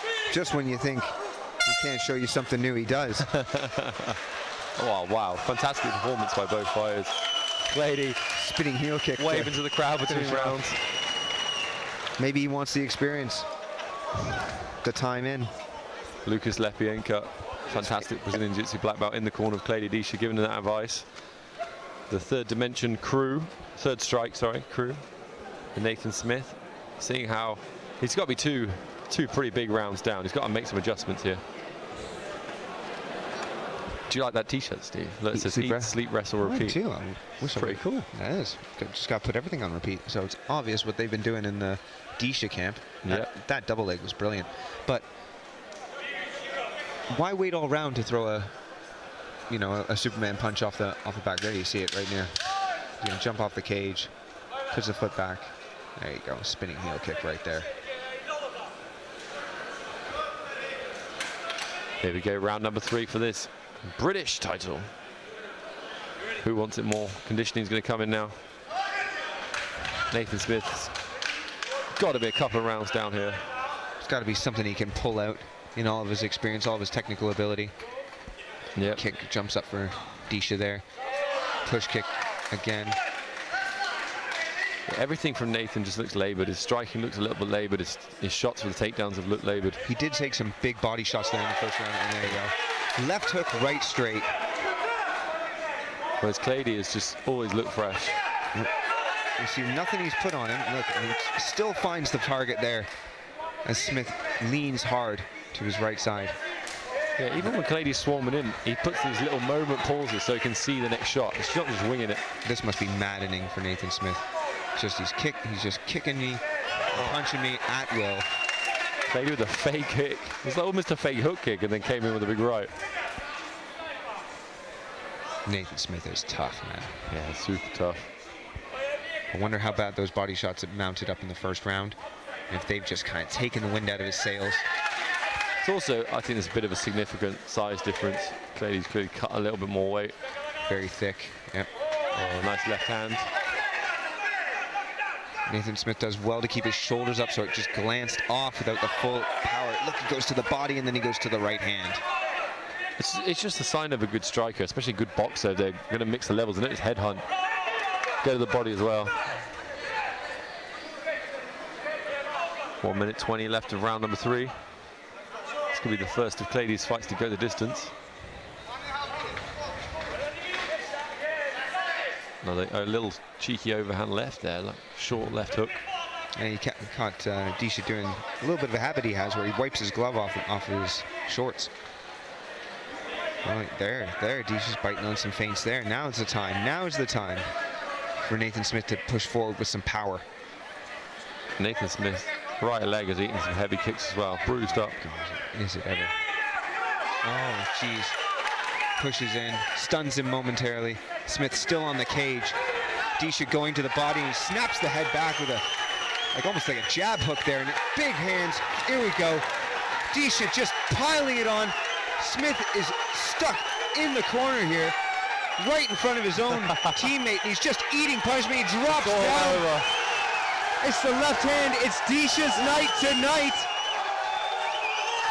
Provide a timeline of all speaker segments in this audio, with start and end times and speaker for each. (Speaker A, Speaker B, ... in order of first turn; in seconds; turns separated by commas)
Speaker A: 0.3-3.4, Speaker B: 3.5-4.2, Speaker B: 4.8-8.2, Speaker A: 8.3-10.7, Speaker B: 9.2-10.8, Speaker A: 12.2-13.5, Speaker A: 14.8-15.5, Speaker B: 16.2-21.2, Speaker A: 17.7-18.1, Speaker B: 22.1-25.1, Speaker B: 25.7-31.4, Speaker B: 34.1-36.8, Speaker A: 35.3-45.0, Speaker B: 37.5-38.1, Speaker B: 43.0-43.3, Speaker A: 47.1-48.5, Speaker A: 49.5-52.4, Speaker A: 53.0-54.1, Speaker A: 54.7-57.7, Speaker B: 62.0-64.9, Speaker B: 66.4-68.3, Speaker B: 70.1-71.0, Speaker B: 72.0-73.5, Speaker A: 74.0-77.7, Speaker B: 78.7-79.0, Speaker A: 78.9-80.8, Speaker A: 81.6-83.0, Speaker B: 84.9-89.8, Speaker A: 89.8-94.3, Speaker B: 96.2-98.2, Speaker A: 99.4-102.9, Speaker A: 103.6-106.4, Speaker B: 107.2-112.2, Speaker A: 112.4-114.2, Speaker A: 114.8-118.3, Speaker B: 116.9-117.2, Speaker B: 119.1-122.7, Speaker A: 125.5-127.1, Speaker B: 127.1-128.1, Speaker A: 129.3-132.0, Speaker A: 132.5-134.6, Speaker B: 135.6-140.2, Speaker A: 140.7-141.7, Speaker B: 142.1-143.3, Speaker A: 145.5-152.0, Speaker B: 153.0-157.2, Speaker B: 158.2-159.1, Speaker B: 162.8-164.6, Speaker B: 165.7-167.9, Speaker B: 172.4-175.8, Speaker A: 176.4-181.7, Speaker A: 183.4-187.5, Speaker A: 188.2-190.2, Speaker B: 191.6-194.9, Speaker A: 194.6-196.1, Speaker A: 197.2-198.1, Speaker A: 199.0-202.6, Speaker A: 203.2-205.6, Speaker A: 206.3-209.4, Speaker A: 210.1-214.9, Speaker A: 215.6-219.7, Speaker B: 216.7-216.9, Speaker B: 218.9-219.8, Speaker A: 220.8-223.7